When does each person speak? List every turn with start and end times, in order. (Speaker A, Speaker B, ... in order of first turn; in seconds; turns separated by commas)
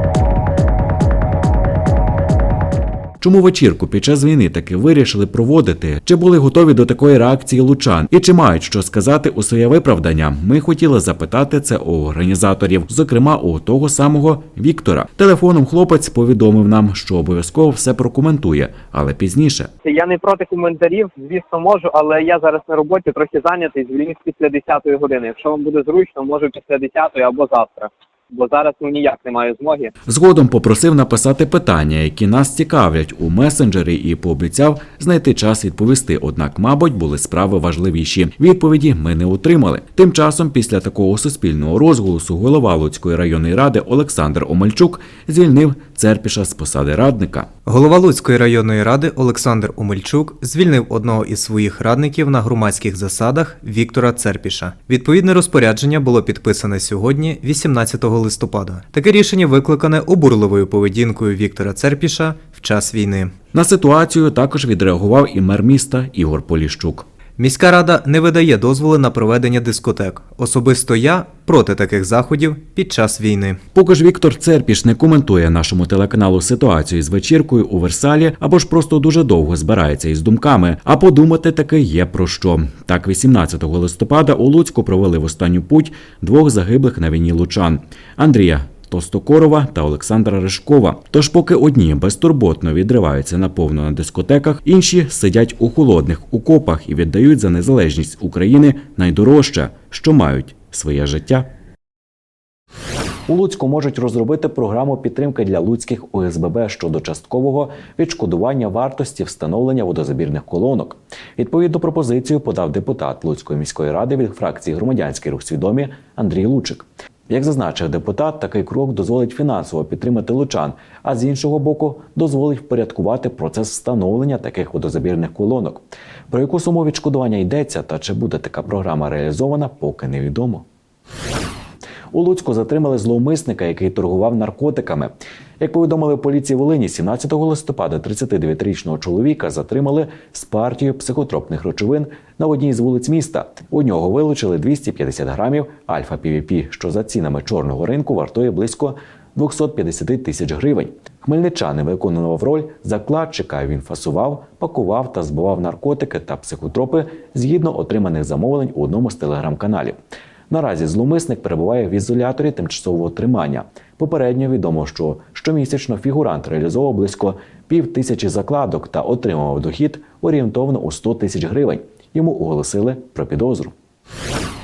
Speaker A: 3.2-19.7, Speaker B: 19.8-29.9, Speaker A: 30.1-47.5, Speaker C: 47.6-63.3, Speaker A: 63.5-67.1, Speaker C: 67.4-73.6, Speaker A: 73.7-101.5, Speaker A: 103.3-130.6, Speaker A: 132.1-160.0, Speaker A: 160.5-173.7